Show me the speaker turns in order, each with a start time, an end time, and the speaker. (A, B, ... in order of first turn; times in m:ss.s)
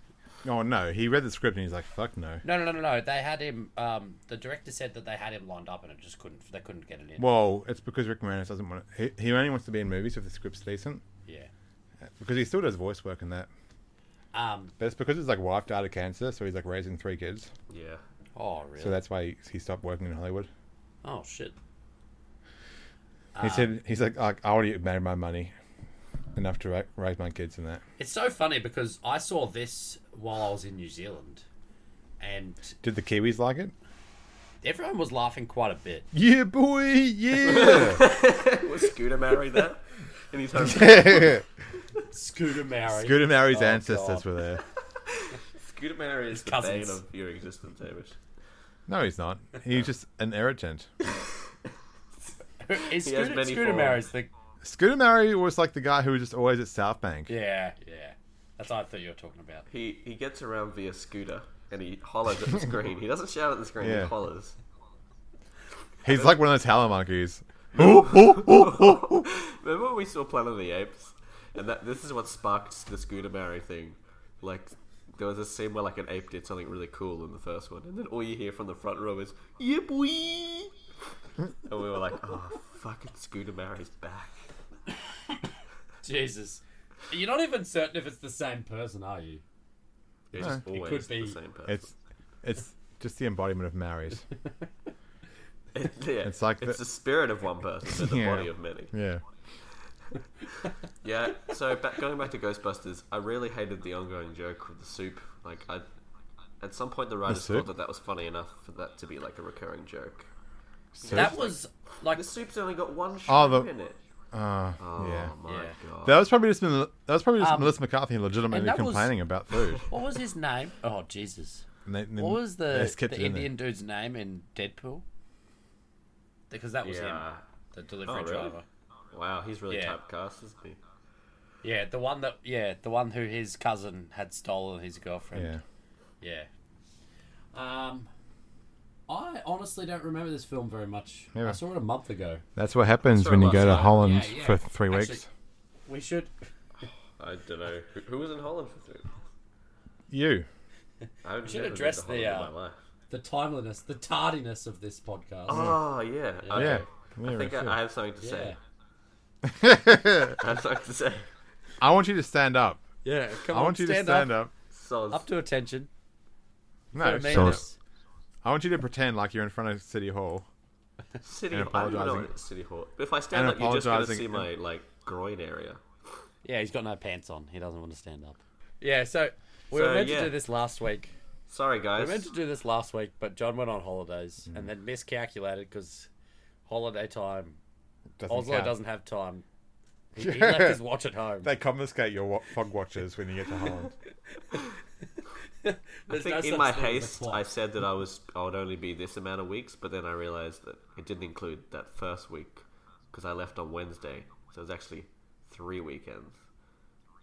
0:00.4-0:02.4 A
0:02.4-0:07.3 B
0:07.2-0:11.0 A
0:11.2-0:11.5 B
0:12.0-0:13.5 A
0:14.3-0:14.7 B
0:14.8-0:17.5 A
0:17.7-0:18.0 C
0:18.4-0:19.0 B
0:18.8-0:20.5 A
0:21.0-0:21.6 B
0:23.3-0:23.7 B
0:23.4-0:25.5 A
0:26.3-0:27.8 A
0:28.0-0:31.4 B
0:32.2-0:32.7 B
0:32.8-0:33.7 A
0:34.6-0:36.1 B
0:36.1-0:38.0 A
0:37.4-0:41.4 C
0:40.6-0:41.4 A
0:42.1-0:44.3 B
0:42.9-0:44.6 A
0:45.0-0:48.2 C
0:46.3-0:47.0 B
0:48.9-0:50.9 A
0:52.6-0:54.3 B
0:52.8-0:54.0 C
0:54.6-0:57.3 A
0:57.3-0:59.6 B
0:59.7-1:04.6 C
1:03.8-1:04.1 A
1:06.0-1:06.4 C
1:06.0-1:09.2 A
1:07.7-1:20.7 C
1:21.6-1:24.3 C
1:26.0-1:29.4 B
1:30.3-1:31.4 B
1:30.3-1:31.9 C
1:31.7-1:34.2 A
1:35.7-1:38.9 C
1:36.2-1:36.8 A
1:37.9-1:39.2 A
1:41.0-1:45.8 C
1:46.6-1:50.3 C
1:47.2-1:47.7 A
1:51.0-1:51.3 A
1:51.0-1:51.5 C
1:51.1-1:52.2 B
1:52.1-1:54.0 C
1:53.3-1:53.7 A
1:54.3-1:55.3 A
1:54.8-1:56.2 C
1:55.4-1:55.8 B
1:56.0-1:59.8 A
1:57.4-1:57.8 B
1:58.5-1:59.1 B
1:59.9-2:01.6 B
2:01.8-2:03.5 A
2:02.2-2:05.0 B
2:06.5-2:08.6 B
2:06.8-2:07.4 C
2:08.1-2:08.6 C
2:09.1-2:10.8 C
2:09.7-2:10.0 B
2:11.6-2:15.6 B
2:15.3-2:15.6 A
2:16.2-2:16.5 B
2:17.5-2:18.1 B
2:19.1-2:22.4 B
2:22.6-2:25.2 A
2:23.0-2:24.0 C
2:23.6-2:25.2 B
2:25.9-2:26.3 B
2:27.2-2:29.1 C
2:30.1-2:30.4 A
2:31.2-2:32.8 C
2:31.4-2:32.5 B
2:33.1-2:35.7 B
2:35.5-2:38.6 C
2:36.4-2:36.8 B
2:36.5-2:37.8 A
2:38.2-2:38.6 B
2:39.4-2:40.4 A
2:40.4-2:41.3 C
2:41.8-2:42.8 A
2:43.0-2:44.3 B
2:43.5-2:44.5 A
2:44.7-2:45.3 C
2:45.1-2:45.9 B
2:46.9-2:47.6 A
2:46.9-2:47.8 B
2:48.4-2:50.5 A
2:51.2-2:55.8 C
2:51.5-2:52.3 A
2:53.3-2:54.4 A
2:56.4-3:01.1 B
2:59.7-3:00.4 C
3:01.5-3:02.3 C
3:02.0-3:06.1 B
3:06.6-3:07.6 B
3:08.2-3:08.7 A
3:08.3-3:09.4 B
3:10.1-3:11.5 B
3:10.2-3:10.8 A
3:11.4-3:13.9 A
3:15.6-3:17.4 B
3:16.1-3:26.4 C